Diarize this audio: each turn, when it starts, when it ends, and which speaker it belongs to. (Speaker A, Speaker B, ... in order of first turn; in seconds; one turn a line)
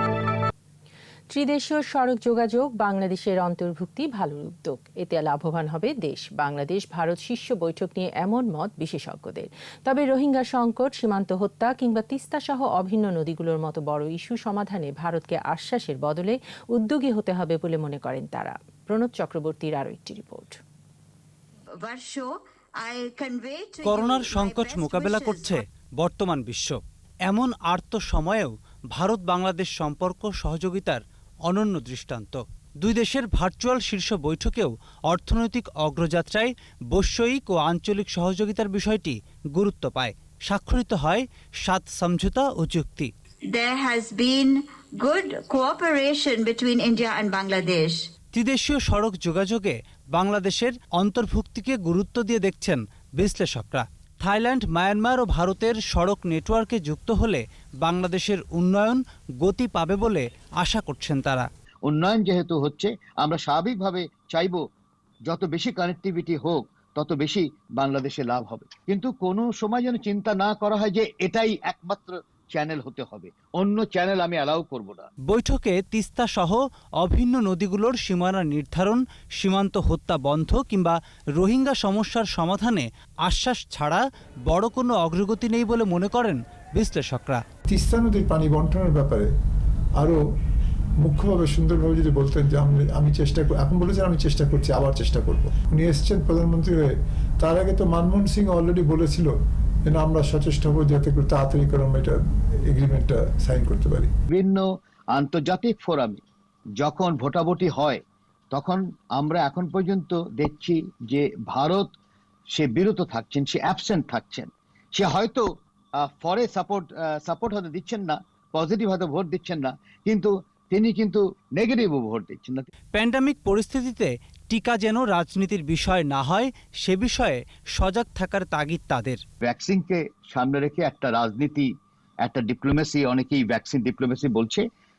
Speaker A: 1.3-20.6
Speaker B: 21.8-25.6
Speaker C: 23.8-43.1
Speaker B: 43.5-48.0
Speaker C: 48.3-61.5
Speaker D: 61.9-64.6
Speaker D: 65.3-75.1
Speaker C: 75.3-87.4
Speaker E: 87.7-89.3
Speaker E: 91.0-96.9
Speaker E: 97.4-99.3
Speaker E: 99.9-104.1
Speaker D: 104.3-106.2
Speaker D: 106.8-108.0
Speaker D: 108.5-111.9
Speaker D: 112.5-115.4
Speaker D: 116.1-122.7
Speaker C: 122.9-129.2
Speaker D: 129.4-131.7
Speaker D: 132.2-134.7